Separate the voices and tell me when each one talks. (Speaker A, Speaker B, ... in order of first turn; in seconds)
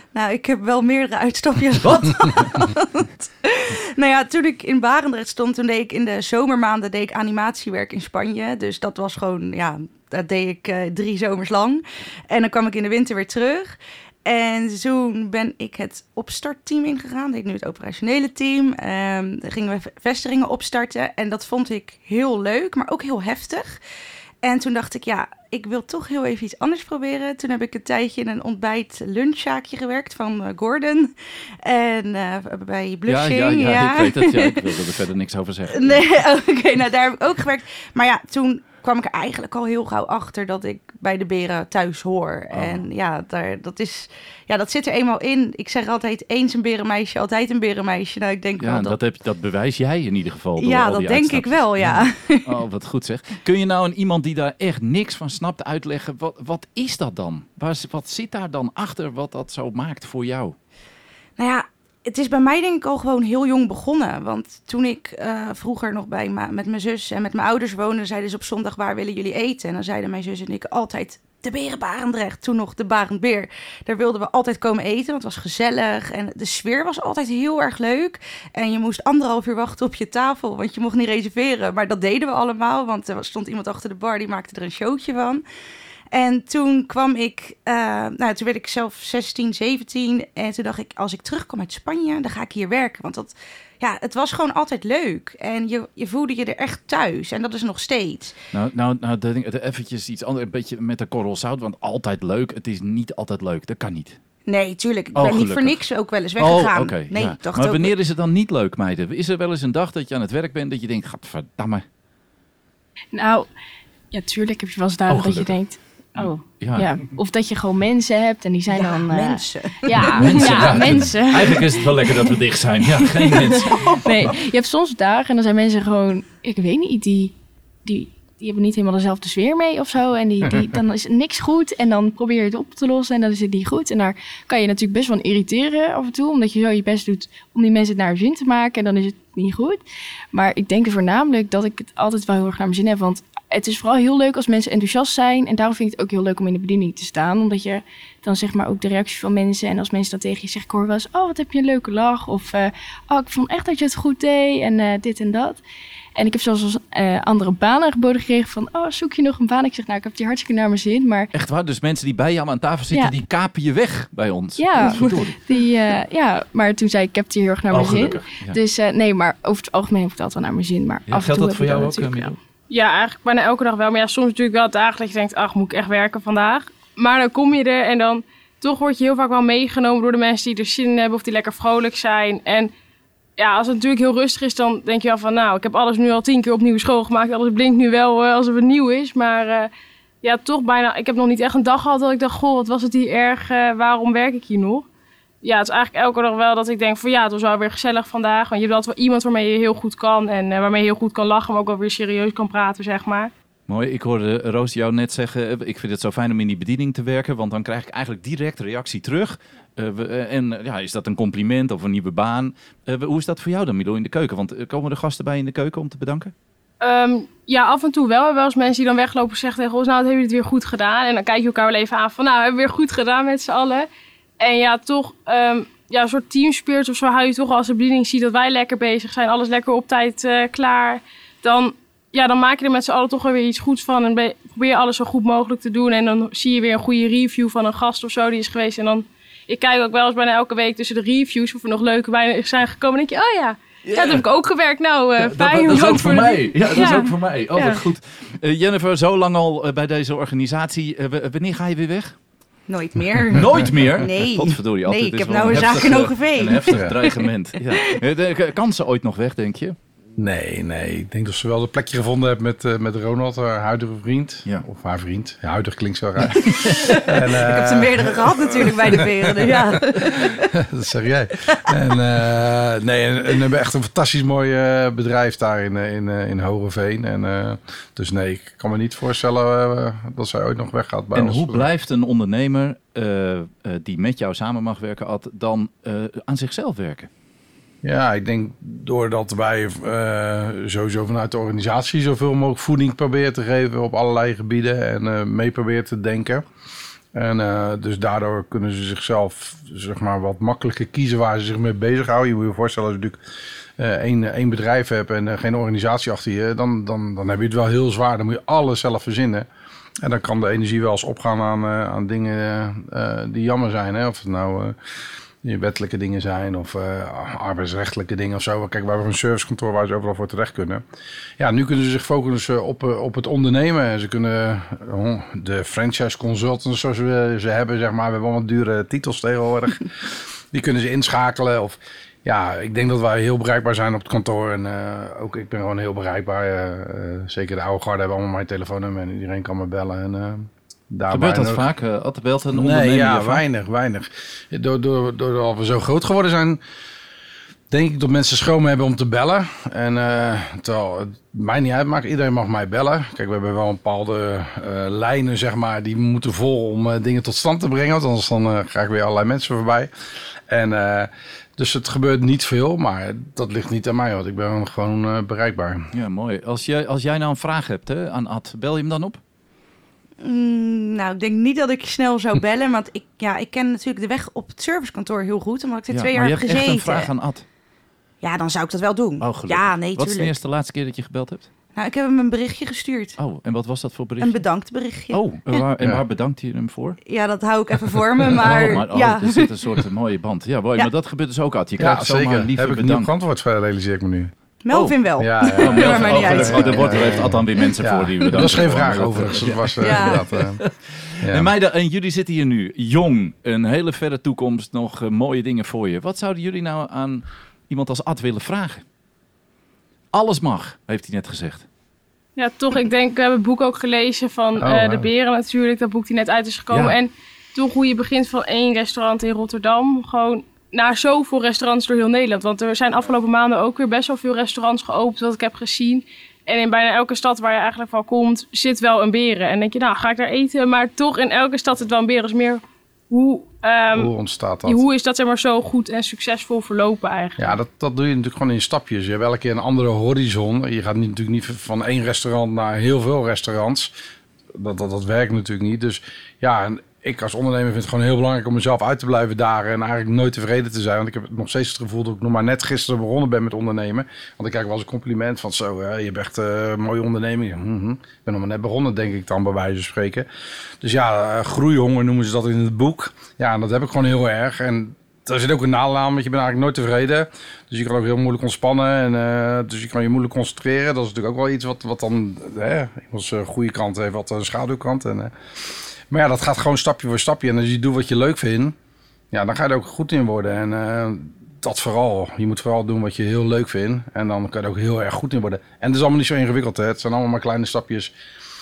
Speaker A: 0.1-23.8, 24.4-34.8, 35.7-49.0, 50.6-52.5, 61.4-85.4, 86.1-98.3, 104.5-107.9, 118.7-120.8, 123.7-124.0, 252.7-258.0, 266.6-270.5, 271.5-271.8, 370.2-377.1, 378.2-380.3, 381.7-383.2, 384.2-385.6, 387.1-389.7, 394.6-397.7, 398.2-398.6, 399.8-400.2
Speaker B: 1.8-2.6, 33.1-36.1, 42.5-42.9, 48.6-60.5, 98.5-104.2, 105.1-105.8, 106.4-111.8, 115.1-115.5, 116.2-116.9, 120.1-124.0, 161.3-165.4, 167.7-168.6, 171.1-172.4, 203.7-216.3, 243.8-244.2, 245.2-252.1, 253.3-259.8, 266.4-266.9, 281.1-287.1, 341.1-343.4, 365.9-369.2, 375.9-377.4, 379.2-381.5, 383.2-384.4, 385.1-387.0, 388.2-393.1, 394.7-395.0, 395.5-408.8, 410.1-411.6, 416.7-416.9
Speaker C: 113.1-113.5, 114.1-122.3, 123.0-127.3, 127.8-139.8, 140.3-155.6, 156.1-161.3, 164.6-172.3
Speaker D: 172.7-182.7, 183.4-189.7, 190.2-194.8, 195.4-203.3, 216.8-223.9, 224.4-247.8, 412.4-434.1, 434.6-437.5
Speaker E: 260.2-281.7, 287.8-296.4, 297.1-303.2, 303.8-309.5, 310.0-314.8, 315.4-320.8, 321.4-341.6, 342.5-346.6, 347.7-359.9, 360.5-365.9, 391.8-394.3, 395.2-400.6, 401.2-401.5, 414.6-415.1, 433.9-434.8, 437.4-443.9, 444.5-460.3, 460.8-478.7, 479.3-488.1